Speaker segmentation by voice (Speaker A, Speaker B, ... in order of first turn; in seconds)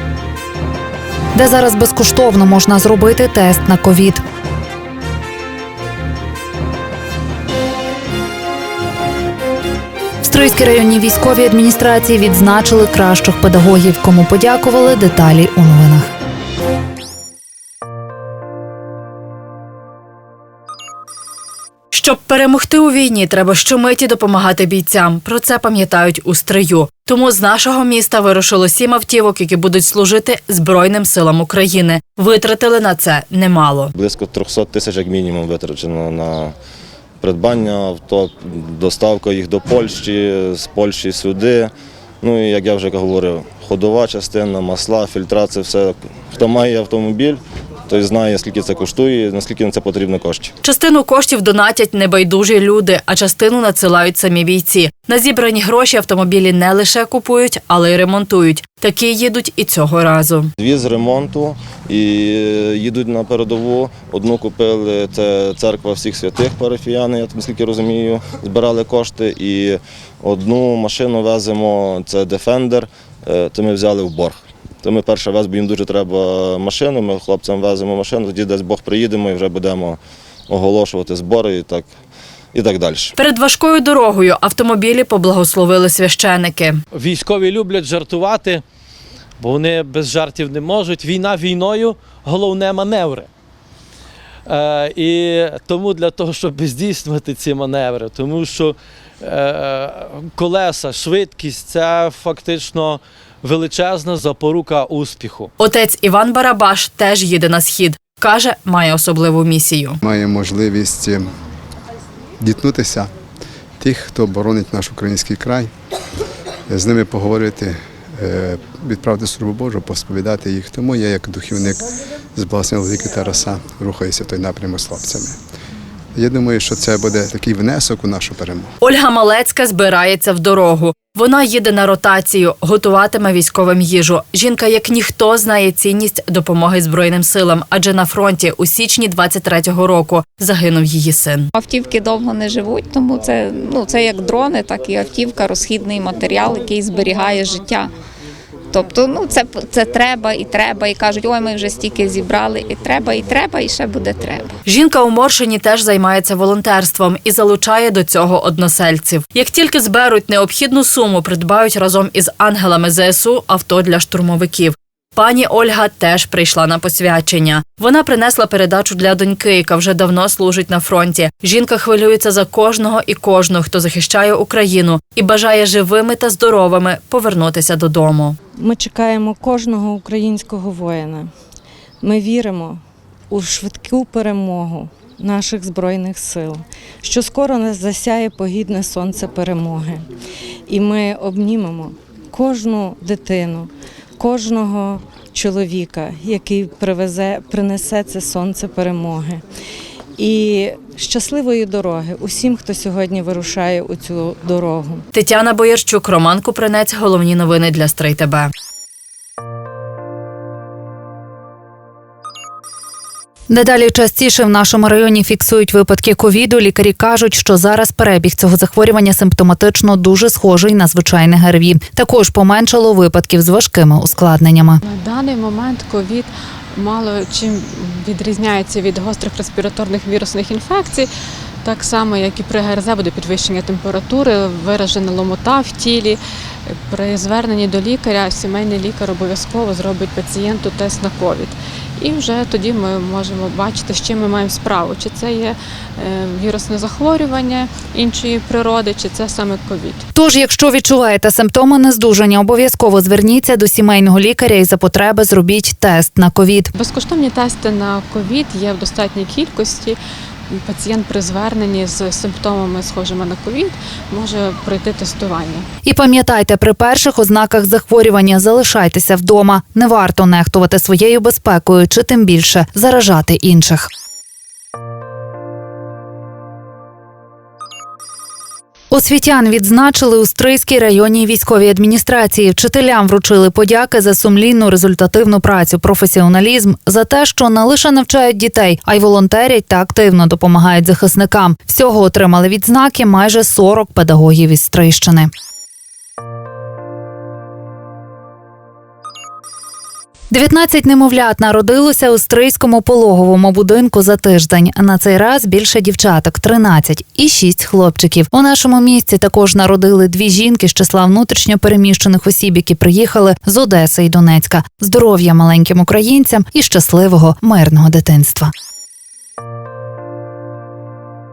Speaker A: 1.4-4.2, 10.2-16.1, 213.5-224.8, 250.2-256.7, 265.9-273.9, 278.9-295.3, 300.3-318.5
Speaker B: 21.9-33.9, 50.6-60.5, 83.2-86.8, 105.6-110.0, 128.8-141.5, 154.7-178.4, 205.1-208.5
Speaker C: 34.0-36.5, 37.2-41.7, 42.2-50.5, 60.6-80.0, 80.5-81.9, 82.5-83.1
Speaker D: 86.9-88.6, 89.4-93.3, 94.5-105.5
Speaker E: 110.0-111.3, 112.4-113.1, 113.8-115.7, 116.7-125.4, 126.2-128.7
Speaker F: 141.6-147.9, 148.7-154.5
Speaker G: 178.6-181.3, 182.0-182.8, 183.3-190.1, 190.7-199.4, 200.2-205.0
Speaker H: 224.8-231.1, 231.6-250.0, 256.8-260.0, 260.7-265.7